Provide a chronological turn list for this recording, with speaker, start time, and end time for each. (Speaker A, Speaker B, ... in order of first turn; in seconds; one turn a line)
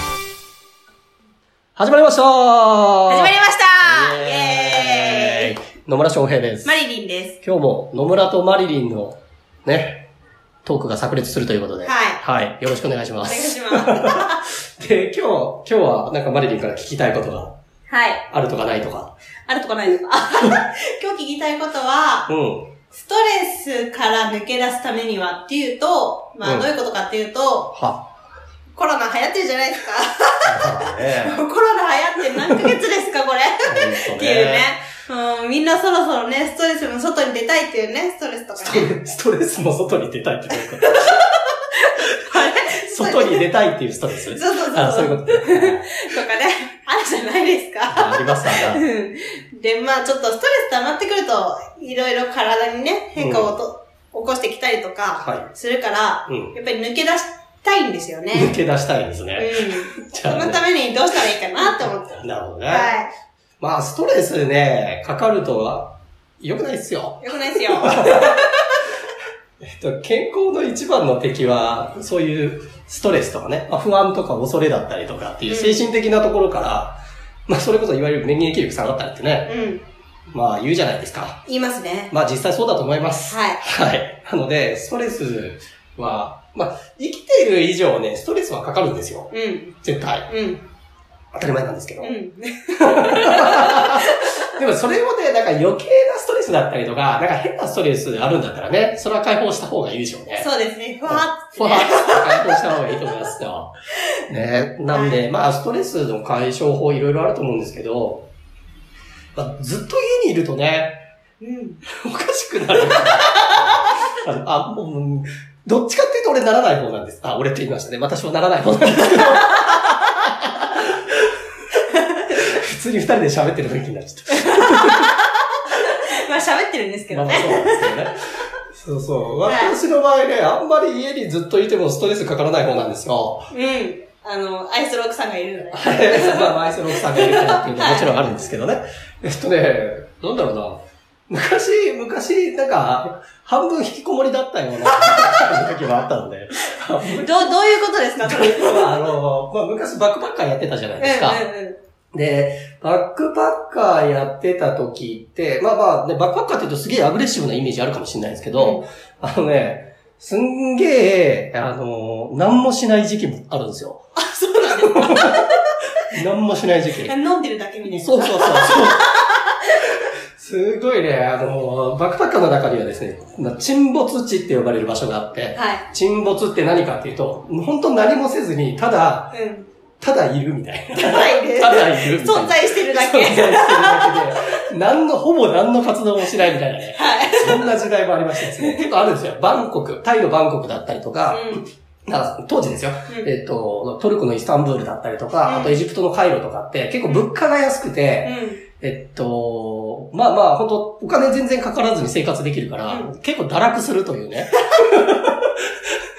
Speaker A: 1.8-6.8
Speaker B: 3.1-5.5
Speaker B: 6.6-7.4
Speaker A: 7.4-10.1
Speaker A: 10.6-17.5
Speaker B: 11.8-12.2
Speaker B: 13.2-14.4
Speaker B: 17.9-18.2
Speaker A: 18.3-19.1
Speaker B: 19.5-22.3
Speaker A: 22.3-22.7
Speaker B: 22.9-27.7
Speaker A: 27.7-28.1
Speaker B: 28.7-38.9
Speaker A: 30.4-31.4
Speaker A: 33.6-34.6
Speaker A: 38.6-41.2
Speaker B: 40.5-43.5
Speaker A: 42.2-46.0
Speaker B: 44.3-58.5
Speaker A: 47.9-48.8
Speaker A: 53.2-53.5
Speaker A: 55.2-55.5
Speaker A: 56.3-56.5
Speaker A: 58.3-60.6
Speaker B: 59.4-62.1
Speaker A: 61.7-62.9
Speaker B: 62.6-63.1
Speaker A: 63.6-68.3
Speaker B: 67.2-68.7
Speaker A: 69.6-79.5
Speaker B: 75.5-75.9
Speaker B: 79.5-79.8
Speaker A: 80.3-81.4
Speaker B: 81.5-82.1
Speaker A: 82.1-89.3
Speaker B: 83.3-83.6
Speaker B: 89.3-89.8
Speaker A: 89.8-90.3
Speaker B: 90.3-90.6
Speaker A: 91.3-92.1
Speaker B: 92.0-94.4
Speaker A: 92.8-100.5
Speaker B: 100.4-102.8
Speaker A: 101.0-103.7
Speaker A: 104.3-108.3
Speaker B: 104.9-105.2
Speaker A: 109.3-111.0
Speaker B: 111.4-111.8
Speaker A: 111.9-121.1
Speaker B: 112.8-113.7
Speaker B: 119.1-119.8
Speaker B: 121.9-122.4
Speaker A: 122.3-125.1
Speaker B: 124.3-128.0
Speaker A: 127.1-133.5
Speaker B: 129.4-129.8
Speaker B: 133.5-138.2
Speaker A: 135.7-147.3
Speaker B: 144.8-145.4
Speaker B: 147.1-149.1
Speaker A: 148.2-151.4
Speaker B: 151.0-151.8
Speaker A: 152.1-164.1
Speaker B: 158.5-158.8
Speaker B: 164.2-165.6
Speaker A: 164.8-165.5
Speaker A: 166.1-167.1
Speaker B: 167.0-169.7
Speaker A: 167.9-169.1
Speaker A: 169.9-179.3
Speaker B: 175.5-175.8
Speaker B: 179.3-179.7
Speaker A: 180.0-205.5
Speaker B: 180.9-184.6
Speaker B: 186.9-187.8
Speaker B: 188.4-189.0
Speaker B: 191.3-191.6
Speaker B: 195.4-195.8
Speaker B: 198.2-198.6
Speaker B: 202.9-203.1